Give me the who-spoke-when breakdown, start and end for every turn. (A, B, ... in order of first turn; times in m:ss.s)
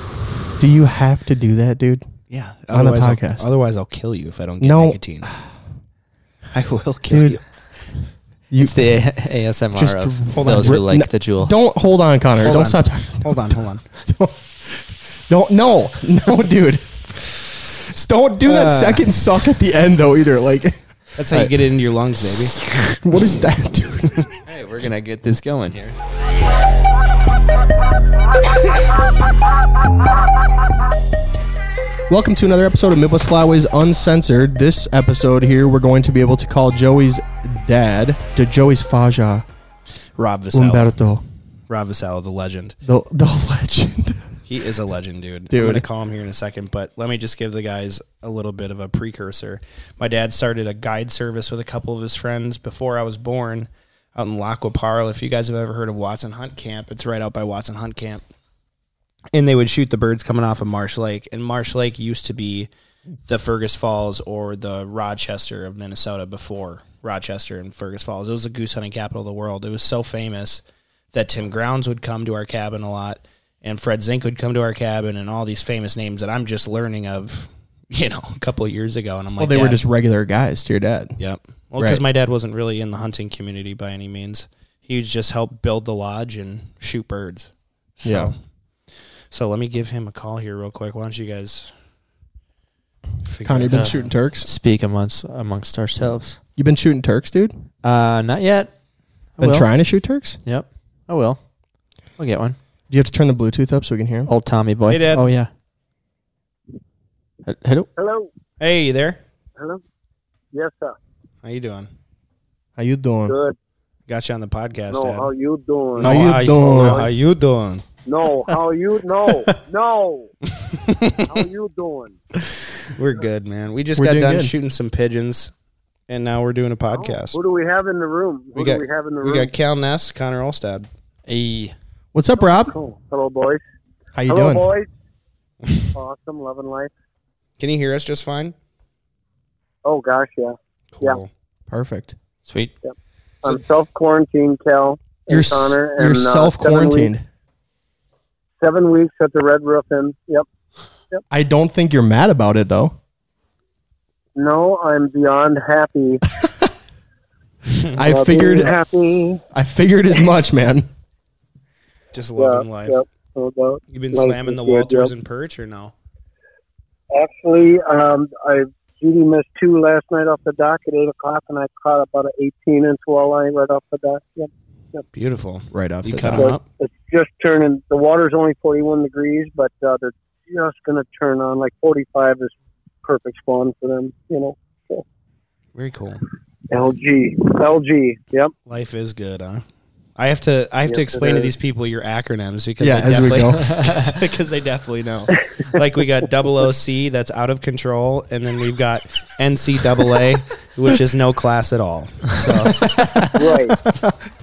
0:00.6-0:02.0 A
0:02.3-0:05.3 B
0:02.7-0:03.4 A
0:04.6-0:05.4 A
0:06.5-0:07.4 B
0:07.1-0:07.4 A
0:08.5-0:08.8 A
0:08.6-0:11.5 C
0:09.7-0:20.8 A
0:10.4-0:10.8 B
0:12.4-0:13.8 B
0:18.4-0:19.0 C
0:21.2-0:22.6 B
0:22.6-0:24.3 A
0:24.4-0:26.0 C
0:32.1-0:39.4 A
0:40.2-0:40.9 B
0:40.5-0:41.2 A
0:41.7-0:42.7 B
0:42.8-0:44.4 A
0:44.5-0:58.2 B
0:45.5-0:45.8 A
0:59.3-1:02.7 B
1:03.3-1:10.6 B
1:11.1-1:19.8 B
1:19.4-1:21.2 A
1:21.2-1:28.3 B
1:28.0-1:28.3 A
1:29.3-1:31.7 B
1:33.2-1:34.1 B
1:33.4-1:34.5 A
1:33.7-1:36.4 C
1:36.6-1:37.5 A
1:37.8-1:38.7 C
1:39.4-1:39.7 C
1:39.4-1:40.4 A
1:40.4-1:41.4 C
1:42.2-1:42.6 C
1:42.9-1:44.3 A
1:44.3-1:45.5 C
1:44.9-1:45.3 B
1:47.4-1:47.9 C
1:48.0-1:48.3 D
1:48.6-1:49.2 B
1:50.5-1:51.0 D
1:51.4-1:51.9 B
1:52.8-1:53.3 A
1:53.3-1:53.6 D
1:54.1-1:55.3 B
1:54.9-1:57.1 D
1:56.0-1:57.8 B
1:56.0-1:57.1 A
1:58.0-2:00.3 D
2:00.7-2:01.2 B
2:01.2-2:02.2 D
2:02.8-2:05.5 B
2:04.0-2:04.5 A
2:06.1-2:07.4 B
2:06.9-2:09.5 D
2:08.5-2:10.9 B
2:11.3-2:11.7 C
2:12.1-2:12.7 A
2:12.6-2:13.6 D
2:14.1-2:14.6 A
2:14.3-2:14.9 D
2:15.9-2:16.9 D
2:17.6-2:18.5 B
2:19.8-2:21.2 D
2:20.9-2:21.3 B
2:21.7-2:22.2 A
2:22.4-2:22.7 C
2:22.8-2:27.1 D
2:25.3-2:27.2 A
2:28.6-2:30.4 D
2:31.3-2:32.9 A
2:34.3-2:36.2 D
2:37.9-2:38.8 A
2:38.0-2:39.4 D
2:39.5-2:40.9 A
2:42.1-2:43.0 B
2:42.4-2:45.1 D
2:43.9-2:45.9 B
2:47.1-2:55.0 D
2:55.1-2:56.6 B
2:55.7-2:56.4 A
2:56.4-3:02.5 D
3:03.0-3:05.0 D
3:05.7-3:06.2 B
3:06.7-3:08.5 D
3:08.7-3:09.6 B
3:10.2-3:23.0 B
3:10.9-3:11.5 D
3:12.8-3:13.9 A
3:22.7-3:23.2 C
3:23.3-3:23.8 D